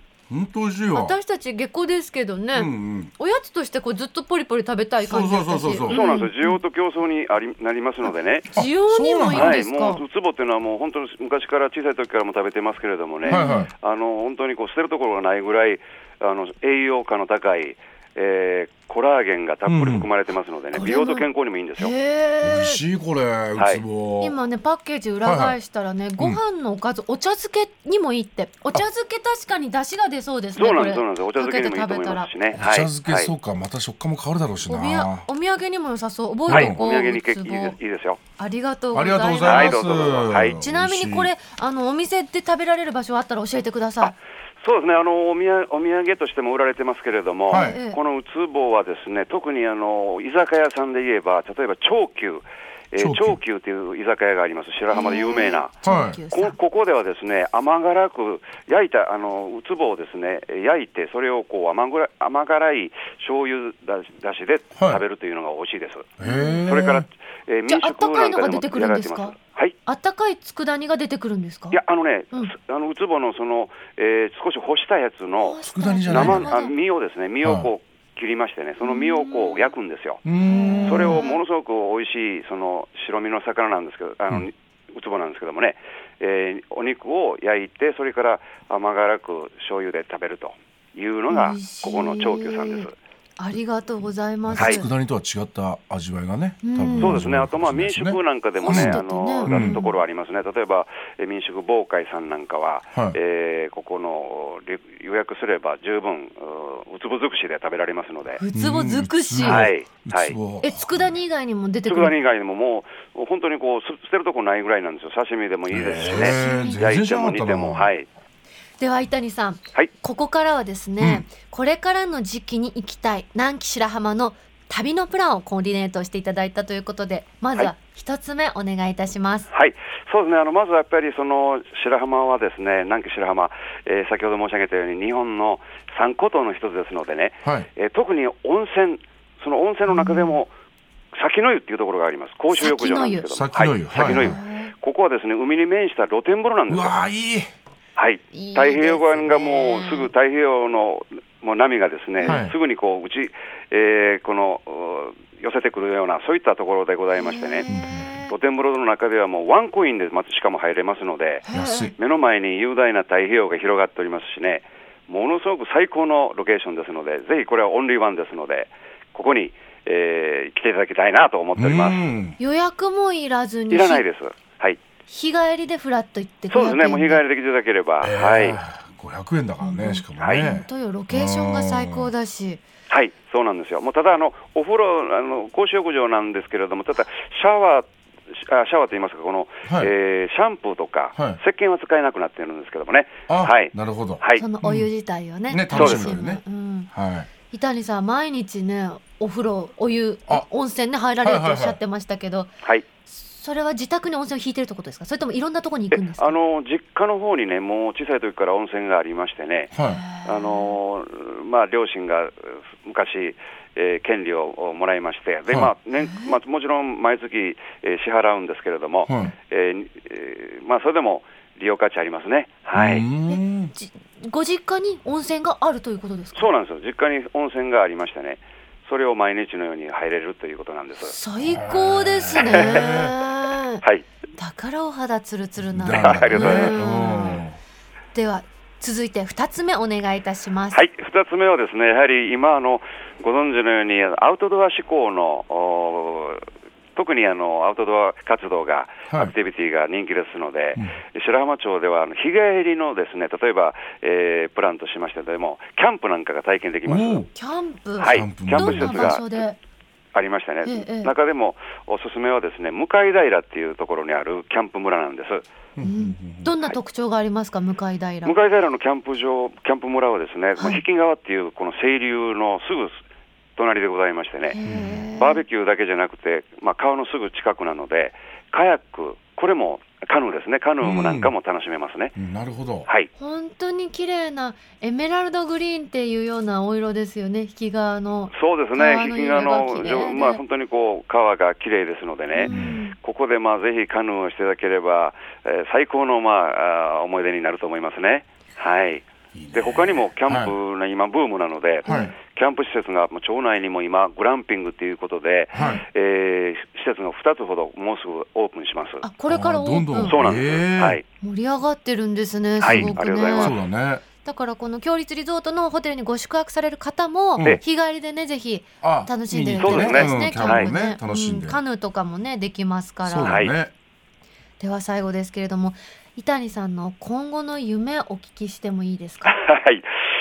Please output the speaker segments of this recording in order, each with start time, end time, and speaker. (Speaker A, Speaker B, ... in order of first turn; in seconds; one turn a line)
Speaker A: 0.3-1.1
Speaker B: 0.9-6.6
Speaker A: 2.5-3.1
Speaker A: 5.0-6.0
Speaker C: 5.9-8.5
Speaker B: 8.5-10.0
Speaker A: 8.5-9.6
Speaker C: 9.3-21.9
Speaker B: 13.2-13.7
Speaker A: 13.2-13.7
Speaker A: 19.6-20.1
Speaker B: 20.7-21.3
Speaker B: 21.8-22.8
Speaker A: 22.4-24.3
Speaker C: 23.6-23.8
Speaker B: 24.2-32.3
Speaker A: 25.2-25.6
Speaker C: 30.6-33.3
Speaker A: 32.5-35.3
Speaker B: 34.7-37.8
Speaker C: 36.5-38.2
Speaker A: 36.5-36.8
Speaker B: 38.4-39.8
Speaker A: 38.9-41.3
Speaker C: 39.4-40.6
Speaker B: 40.6-44.1
Speaker C: 44.0-55.7
Speaker A: 47.5-47.8
Speaker B: 47.5-48.0
Speaker A: 53.0-53.4
Speaker B: 54.9-56.5
Speaker A: 55.8-56.2
Speaker C: 56.3-69.8
Speaker A: 64.8-65.0
Speaker A: 66.2-67.1
Speaker B: 66.2-66.7
Speaker B: 67.7-69.3
Speaker B: 69.8-71.8
Speaker C: 71.7-80.2
Speaker B: 75.4-76.7
Speaker A: 75.7-76.5
Speaker A: 77.4-77.7
Speaker B: 78.8-79.7
Speaker A: 80.2-81.2
Speaker B: 80.4-81.4
Speaker C: 80.8-92.9
Speaker B: 91.3-94.9
Speaker A: 94.5-99.8
Speaker C: 94.5-94.8
Speaker B: 96.6-97.2
Speaker C: 97.0-108.4
Speaker B: 98.6-100.0
Speaker B: 108.3-109.7
Speaker A: 108.5-111.1
Speaker C: 109.4-110.4
Speaker B: 110.6-112.2
Speaker C: 111.8-118.1
Speaker A: 115.7-117.9
Speaker B: 116.1-116.8
Speaker B: 118.8-129.5
Speaker A: 121.0-121.2
Speaker C: 129.5-140.5
Speaker B: 139.9-140.4
Speaker C: 141.1-146.9
Speaker B: 142.6-143.4
Speaker A: 143.4-144.4
Speaker B: 144.0-144.7
Speaker A: 146.7-147.5
Speaker C: 148.0-157.7
Speaker B: 148.3-150.1
Speaker A: 152.2-152.6
Speaker B: 157.1-158.3
Speaker A: 157.7-158.1
Speaker C: 158.3-172.0
Speaker B: 161.4-161.9
Speaker A: 161.5-161.9
Speaker A: 171.6-172.4
Speaker B: 172.4-174.0
Speaker C: 173.7-174.8
Speaker B: 175.1-177.2
Speaker C: 176.5-178.6
Speaker A: 178.0-182.1
Speaker B: 179.6-182.6
Speaker C: 180.2-180.5
Speaker C: 182.9-194.4
Speaker A: 189.7-189.9
Speaker A: 193.3-194.9
Speaker B: 194.4-196.9
Speaker A: 195.5-197.3
Speaker C: 195.7-196.2
Speaker B: 197.5-202.5
Speaker A: 201.2-201.8
Speaker B: 203.1-206.4
Speaker C: 205.9-209.7
Speaker A: 209.7-210.0
Speaker B: 209.8-210.8
Speaker C: 210.2-223.1
Speaker B: 216.0-216.4
Speaker A: 219.1-219.3
Speaker A: 222.7-223.7
Speaker B: 223.3-226.5
Speaker C: 226.3-231.1
Speaker B: 231.0-233.8
Speaker A: 231.4-233.1
Speaker C: 232.4-233.0
Speaker B: 234.4-237.4
Speaker A: 235.7-237.6
Speaker C: 235.9-236.8
Speaker B: 238.1-240.8
Speaker C: 240.7-246.4
Speaker C: 246.9-257.2
Speaker A: 256.9-257.3
Speaker B: 257.3-259.6
Speaker C: 258.0-259.4
Speaker A: 258.1-259.2
Speaker C: 260.1-265.4
Speaker B: 260.6-261.1
Speaker A: 265.8-266.6
Speaker B: 265.8-268.4
Speaker C: 268.2-273.0
Speaker C: 273.6-274.6
Speaker B: 274.5-275.4
Speaker A: 274.6-275.0
Speaker C: 275.1-282.1
Speaker A: 280.8-281.3
Speaker A: 282.1-282.9
Speaker B: 283.2-290.4
Speaker C: 288.3-309.1
Speaker B: 292.3-292.9
Speaker A: 292.5-292.8
Speaker A: 299.3-300.5
Speaker B: 301.9-302.1
Speaker A: 301.9-302.1
Speaker A: 305.5-305.8
Speaker B: 305.6-305.8
Speaker B: 309.0-310.2
Speaker A: 309.3-311.0
Speaker C: 310.0-311.0
Speaker B: 311.2-313.6
Speaker C: 312.6-313.6
Speaker A: 312.6-314.0
Speaker B: 314.2-323.3
Speaker A: 318.8-321.6
Speaker C: 319.6-320.7
Speaker A: 323.0-323.7
Speaker C: 323.2-323.5
Speaker B: 324.6-329.4
Speaker C: 329.2-329.9